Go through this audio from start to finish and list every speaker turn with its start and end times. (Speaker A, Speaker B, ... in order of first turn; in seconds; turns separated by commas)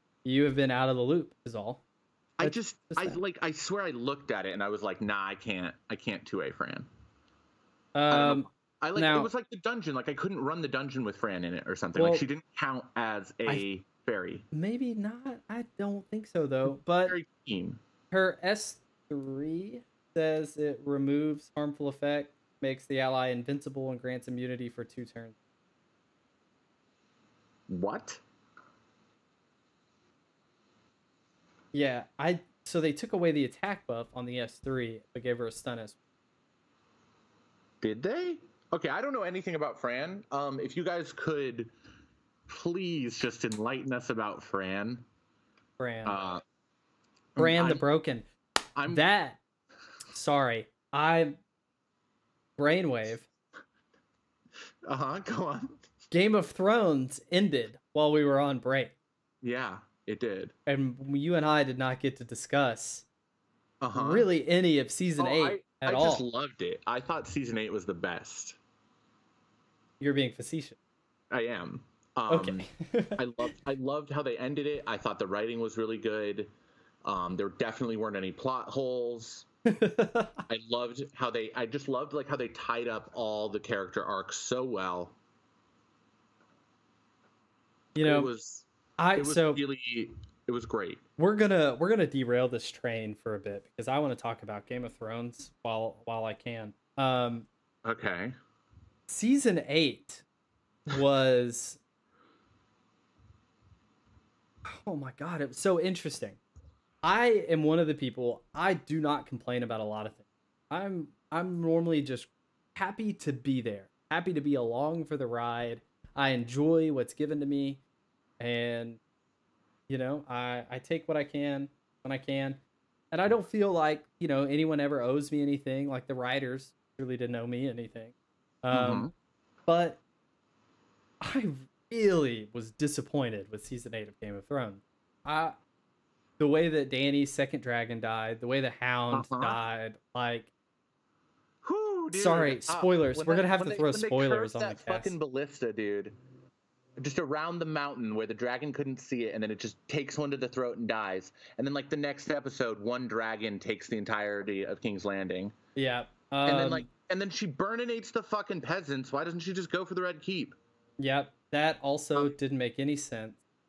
Speaker A: 0.2-1.8, Speaker B: 2.4-6.9, Speaker A: 2.4-3.2, Speaker A: 7.9-9.3, Speaker B: 8.1-14.4, Speaker A: 11.9-12.2, Speaker A: 14.5-17.1, Speaker B: 17.0-17.8, Speaker A: 18.1-25.4, Speaker B: 27.7-28.2, Speaker A: 31.7-36.0, Speaker B: 37.8-41.7, Speaker B: 42.5-45.0, Speaker A: 45.8-46.2, Speaker B: 46.0-46.4, Speaker B: 47.4-47.8, Speaker A: 47.4-48.2, Speaker B: 48.8-49.0, Speaker A: 48.9-49.4, Speaker A: 50.1-51.4, Speaker A: 52.6-53.3, Speaker B: 54.9-55.9, Speaker A: 56.1-58.9, Speaker B: 59.4-60.5, Speaker A: 60.6-63.0, Speaker B: 63.8-64.3, Speaker A: 63.9-66.2, Speaker B: 65.2-68.6, Speaker A: 70.0-70.8, Speaker B: 71.3-76.5, Speaker A: 72.3-73.2, Speaker B: 77.0-79.5, Speaker A: 79.7-80.4, Speaker B: 80.5-85.1, Speaker A: 87.9-88.3, Speaker B: 88.0-91.0, Speaker A: 89.0-89.6, Speaker A: 91.2-97.5, Speaker B: 97.8-98.3, Speaker A: 99.1-100.2, Speaker A: 100.9-101.8, Speaker A: 104.7-106.4, Speaker A: 107.0-117.8, Speaker A: 118.4-119.0, Speaker A: 119.9-122.6, Speaker A: 123.1-129.1, Speaker B: 128.7-129.1, Speaker A: 129.7-130.0, Speaker A: 131.2-135.6, Speaker A: 136.4-140.5, Speaker B: 139.1-139.6, Speaker B: 141.6-146.1, Speaker A: 142.1-145.1, Speaker B: 147.0-155.5, Speaker A: 155.8-156.9, Speaker B: 156.4-160.6, Speaker A: 161.0-163.4